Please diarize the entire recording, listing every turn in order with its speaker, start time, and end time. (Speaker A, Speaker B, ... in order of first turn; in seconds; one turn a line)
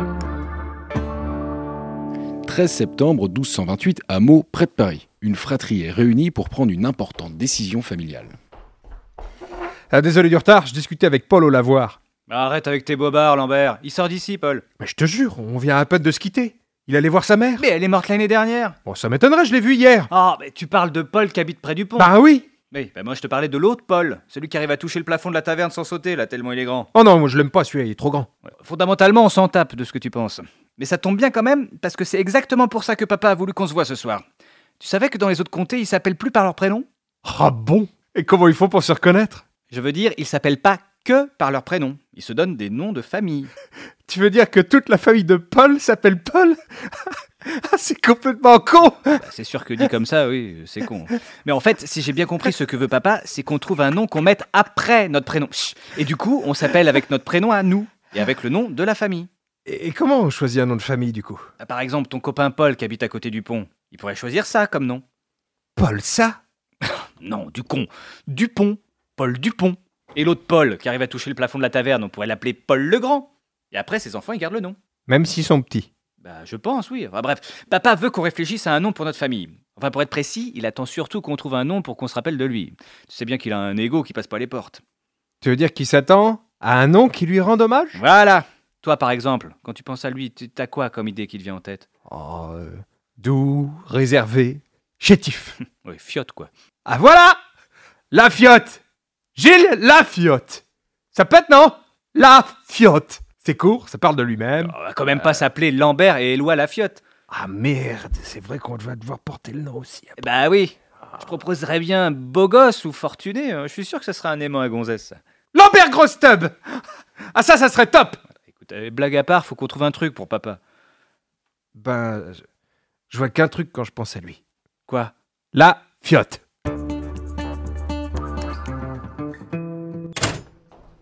Speaker A: 2.5-8.3
Speaker B: 9.9-12.0
Speaker C: 12.3-14.6
Speaker B: 14.8-17.6
Speaker C: 17.6-18.8
Speaker B: 18.9-20.1
Speaker C: 20.1-22.1
Speaker B: 22.0-22.5
Speaker C: 22.7-26.9
Speaker B: 26.9-28.3
Speaker C: 28.5-34.2
Speaker C: 34.8-36.9
Speaker B: 37.2-39.4
Speaker C: 39.7-43.5
Speaker B: 44.1-49.2
Speaker C: 49.1-59.3
Speaker B: 59.6-61.4
Speaker C: 61.6-65.0
Speaker B: 65.8-66.4
Speaker C: 66.8-74.8
Speaker B: 75.1-75.9
Speaker C: 76.2-84.8
Speaker B: 85.4-88.0
Speaker C: 87.9-91.8
Speaker B: 92.1-95.6
Speaker C: 95.8-96.5
Speaker B: 96.8-97.4
Speaker B: 98.1-98.8
Speaker B: 99.3-100.6
Speaker B: 101.1-104.7
Speaker C: 104.6-107.0
Speaker B: 107.3-110.2
Speaker C: 110.2-115.2
Speaker B: 115.5-116.8
Speaker B: 117.3-118.2
Speaker C: 118.5-120.6
Speaker B: 121.7-122.4
Speaker B: 123.1-124.4
Speaker C: 124.9-125.1
Speaker B: 125.5-126.4